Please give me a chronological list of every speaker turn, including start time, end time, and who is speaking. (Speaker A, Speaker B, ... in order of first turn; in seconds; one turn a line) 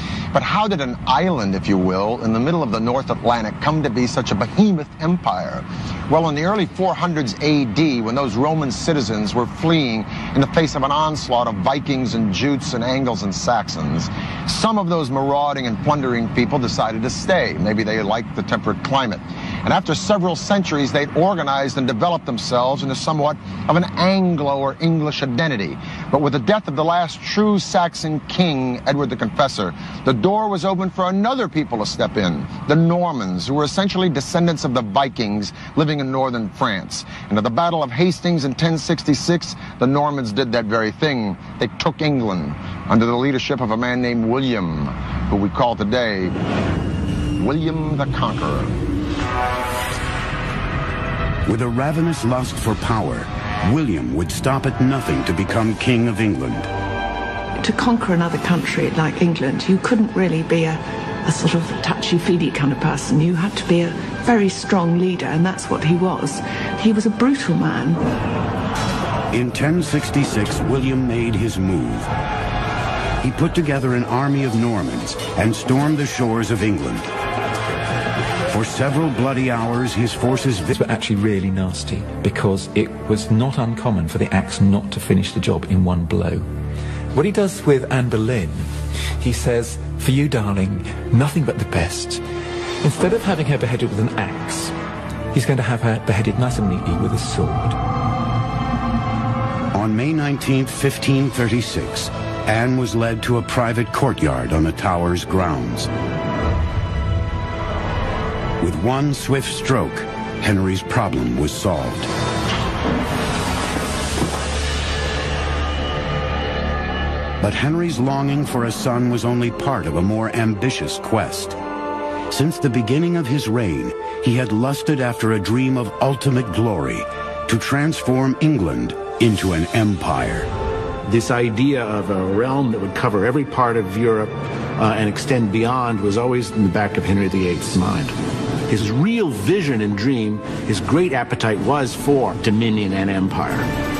Speaker A: 0.3-46.4
Speaker A: 47.4-48.8
Speaker B: 51.5-56.7
Speaker C: 57.6-68.0
Speaker B: 69.3-72.1
Speaker B: 73.2-77.1
Speaker B: 78.5-80.7
Speaker D: 80.7-86.5
Speaker D: 87.1-92.2
Speaker D: 92.8-94.7
Speaker D: 95.3-97.8
Speaker B: 99.7-105.9
Speaker B: 108.6-112.1
Speaker B: 117.4-121.6
Speaker B: 122.3-130.5
Speaker E: 131.1-138.2
Speaker E: 138.7-143.7